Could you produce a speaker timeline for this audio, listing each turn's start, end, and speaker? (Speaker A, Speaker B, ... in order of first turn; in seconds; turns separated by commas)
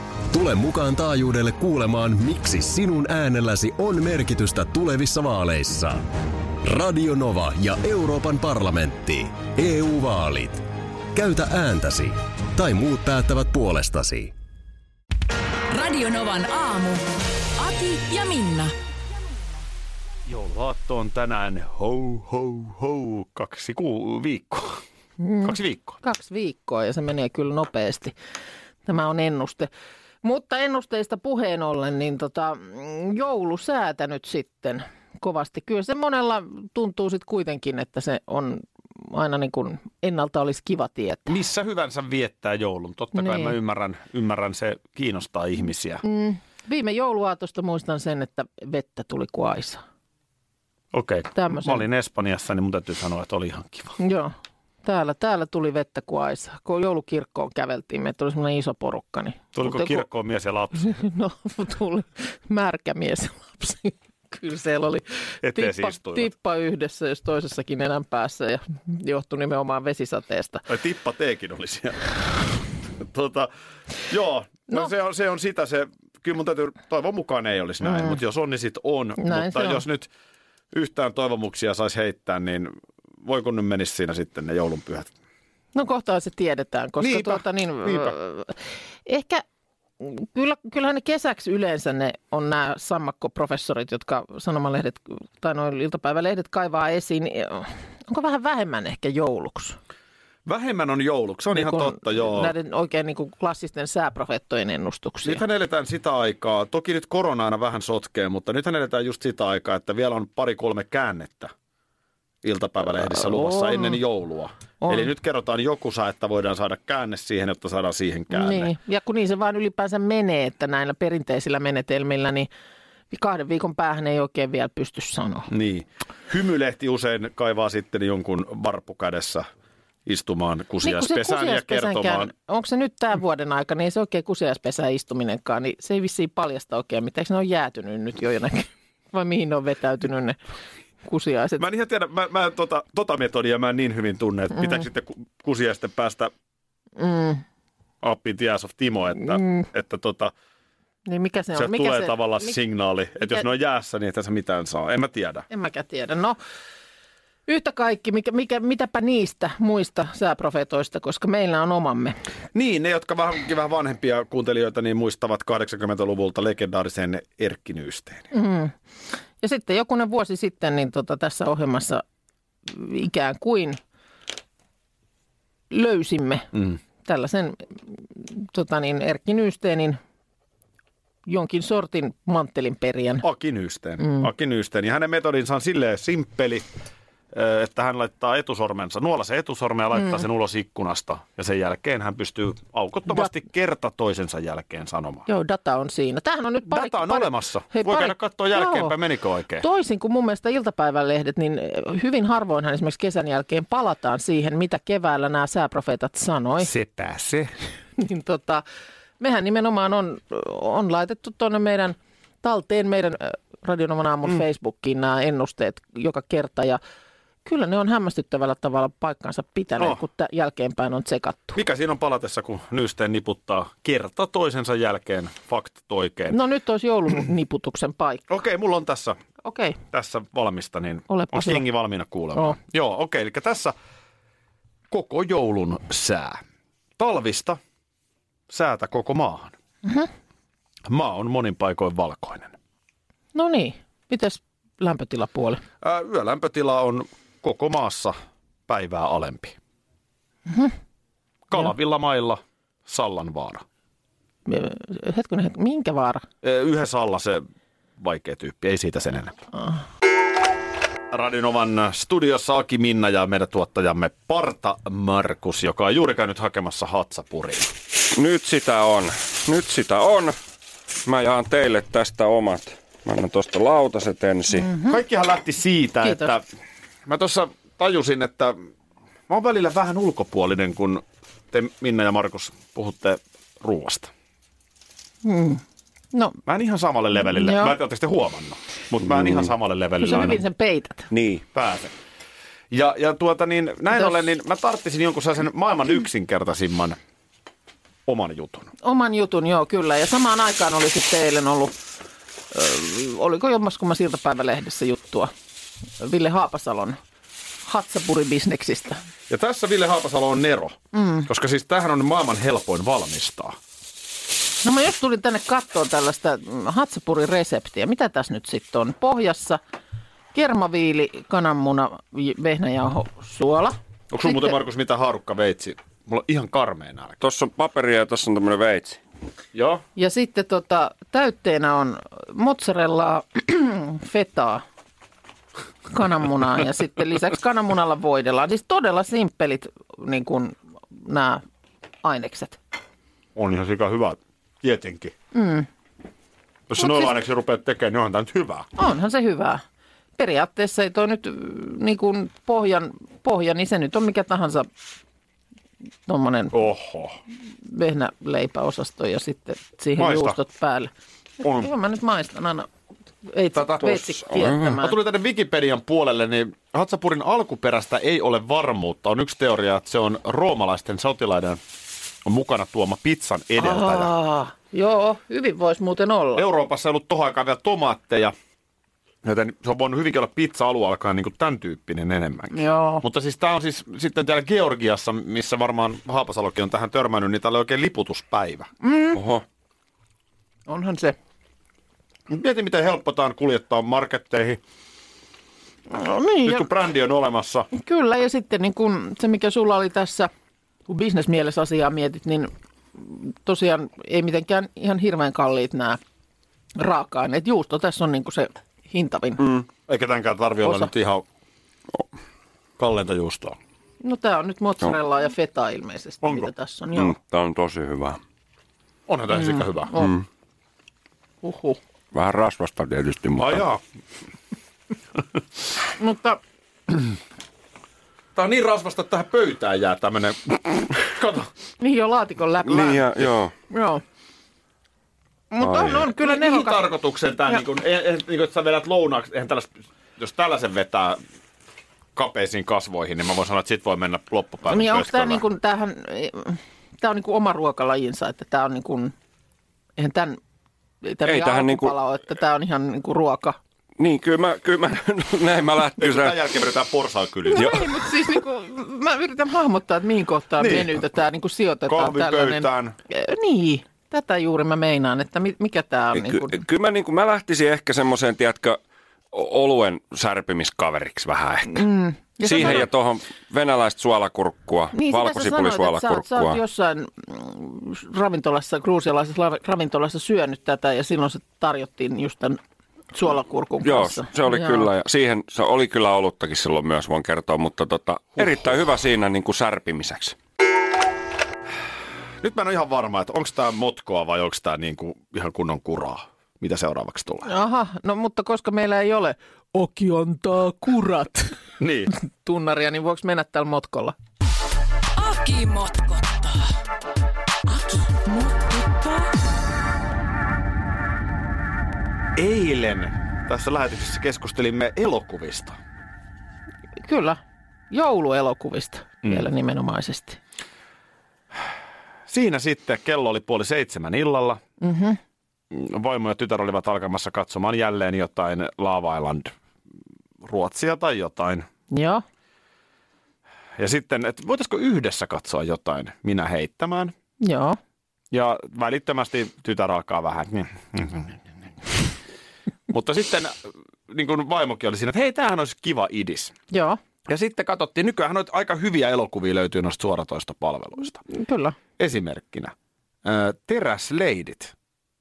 Speaker A: 0.3-6.1, Speaker A: 6.6-14.3, Speaker B: 20.3-24.8, Speaker C: 25.2-28.1, Speaker B: 25.4-26.0, Speaker C: 28.9-29.7, Speaker C: 30.2-41.3, Speaker B: 41.3-46.0, Speaker C: 43.2-43.6, Speaker C: 46.0-49.8, Speaker B: 50.9-54.0, Speaker C: 51.4-51.8, Speaker C: 54.0-60.1, Speaker B: 59.5-61.0, Speaker C: 60.8-70.7, Speaker B: 65.4-66.3, Speaker B: 70.7-72.2, Speaker B: 73.0-73.5, Speaker B: 74.1-80.1, Speaker C: 77.8-78.2, Speaker C: 79.2-79.8, Speaker B: 80.7-85.1, Speaker C: 85.8-89.4, Speaker B: 87.0-88.2, Speaker C: 90.0-99.8, Speaker B: 100.5-102.5, Speaker C: 101.5-105.4, Speaker B: 105.2-111.5, Speaker B: 112.4-118.7, Speaker C: 113.1-114.0, Speaker C: 114.8-115.1, Speaker C: 118.3-122.5, Speaker C: 123.1-125.5, Speaker B: 125.5-129.4, Speaker B: 130.1-132.3, Speaker C: 130.8-140.4, Speaker C: 141.0-141.6, Speaker B: 141.6-146.3, Speaker C: 144.6-144.9, Speaker C: 147.0-147.4, Speaker B: 148.0-150.3, Speaker C: 151.1-152.6, Speaker B: 151.6-155.4, Speaker C: 153.2-153.4, Speaker C: 155.5-156.4, Speaker C: 157.5-162.2, Speaker B: 162.5-168.3, Speaker C: 168.3-168.8, Speaker C: 169.4-172.0, Speaker C: 172.7-173.8, Speaker C: 175.7-176.5, Speaker C: 177.0-180.0, Speaker C: 181.3-183.2, Speaker B: 183.2-186.7, Speaker C: 184.0-184.3, Speaker B: 187.3-195.3, Speaker C: 195.3-198.9, Speaker B: 196.7-199.7, Speaker C: 199.6-206.7, Speaker B: 206.6-207.6, Speaker C: 208.0-208.6, Speaker C: 209.2-216.8, Speaker C: 217.4-221.6, Speaker B: 221.6-226.4, Speaker C: 226.3-228.2, Speaker B: 228.3-229.2, Speaker C: 229.4-229.8, Speaker B: 229.9-233.7, Speaker C: 231.1-231.7, Speaker B: 234.9-236.4, Speaker B: 237.0-237.6, Speaker B: 238.5-239.6, Speaker B: 240.9-242.6, Speaker C: 243.3-245.6, Speaker B: 245.8-248.2, Speaker B: 248.7-249.6, Speaker C: 250.5-250.8, Speaker B: 251.5-253.6, Speaker C: 254.5-256.2, Speaker B: 256.4-257.4, Speaker B: 258.0-259.4, Speaker B: 261.1-267.7, Speaker D: 268.1-270.4, Speaker D: 271.1-274.7, Speaker C: 274.5-275.0, Speaker B: 274.9-276.4, Speaker C: 276.0-276.3, Speaker B: 277.1-278.6, Speaker B: 279.3-284.1, Speaker C: 285.2-285.6, Speaker B: 286.5-290.4, Speaker C: 287.2-287.8, Speaker C: 290.0-291.1, Speaker D: 291.1-291.4, Speaker B: 291.5-291.9, Speaker B: 292.7-297.0, Speaker B: 298.1-298.7, Speaker C: 298.8-301.8, Speaker C: 302.5-305.3, Speaker C: 306.0-307.0, Speaker C: 307.6-309.0, Speaker B: 309.3-310.8, Speaker C: 310.9-311.3, Speaker B: 311.3-313.6, Speaker C: 314.6-319.6, Speaker C: 320.3-324.6, Speaker B: 324.1-327.2, Speaker D: 327.2-329.0, Speaker B: 329.5-329.8, Speaker C: 330.0-334.6, Speaker C: 335.9-341.4, Speaker C: 342.0-342.6, Speaker B: 343.4-345.1, Speaker C: 345.3-345.7, Speaker B: 346.7-348.7, Speaker C: 346.8-347.1, Speaker C: 348.8-349.6, Speaker C: 350.2-354.7, Speaker C: 356.1-356.6, Speaker B: 356.5-357.2, Speaker C: 357.6-362.7, Speaker B: 360.0-360.4, Speaker B: 361.4-361.7, Speaker C: 363.3-365.0, Speaker D: 363.8-364.8, Speaker B: 364.8-371.6, Speaker B: 372.2-374.1, Speaker C: 373.6-376.4, Speaker B: 376.4-378.3, Speaker B: 379.2-388.7, Speaker C: 382.5-383.0, Speaker C: 388.8-389.2, Speaker D: 389.1-389.4, Speaker C: 390.7-391.2, Speaker B: 392.3-394.6, Speaker C: 395.9-396.7, Speaker B: 396.4-397.7, Speaker C: 397.7-400.3, Speaker C: 400.9-406.0, Speaker C: 406.8-409.4, Speaker B: 409.9-411.2, Speaker C: 410.6-410.9, Speaker B: 412.8-413.6, Speaker C: 414.0-417.2, Speaker B: 416.2-416.5, Speaker D: 416.9-418.2, Speaker B: 419.1-419.9, Speaker C: 419.3-420.1, Speaker D: 420.0-420.2, Speaker C: 421.4-421.8, Speaker D: 422.1-423.6, Speaker B: 423.4-423.8, Speaker C: 426.0-426.4, Speaker B: 428.4-431.5, Speaker C: 431.8-434.0, Speaker D: 432.6-433.5, Speaker C: 435.5-436.9, Speaker D: 435.6-436.1, Speaker B: 436.0-441.2, Speaker B: 442.2-445.4, Speaker C: 444.7-449.1, Speaker C: 450.0-450.4, Speaker C: 451.0-453.6, Speaker D: 451.2-451.9, Speaker D: 454.0-456.4, Speaker B: 456.0-457.8, Speaker C: 457.5-466.6, Speaker B: 460.6-461.0, Speaker B: 461.9-463.0, Speaker D: 466.1-468.8, Speaker D: 469.3-471.8, Speaker C: 471.7-472.9, Speaker D: 472.4-476.6, Speaker B: 472.6-472.8, Speaker C: 474.9-482.6, Speaker C: 483.1-484.9, Speaker D: 483.8-490.4, Speaker B: 492.4-497.5, Speaker C: 497.5-501.6, Speaker B: 501.8-502.1, Speaker C: 502.1-504.1, Speaker E: 505.1-506.6, Speaker E: 507.7-509.2, Speaker B: 512.4-515.8, Speaker C: 517.0-520.4, Speaker B: 522.3-524.6, Speaker C: 524.8-525.2, Speaker B: 525.7-529.5, Speaker B: 530.4-531.7, Speaker C: 531.9-532.2, Speaker B: 533.8-537.1, Speaker C: 537.4-537.8, Speaker B: 538.3-541.4, Speaker B: 542.9-543.6, Speaker B: 544.1-546.6, Speaker C: 546.7-547.0, Speaker B: 547.3-551.2, Speaker C: 551.3-551.8, Speaker B: 552.0-552.7, Speaker B: 553.2-554.7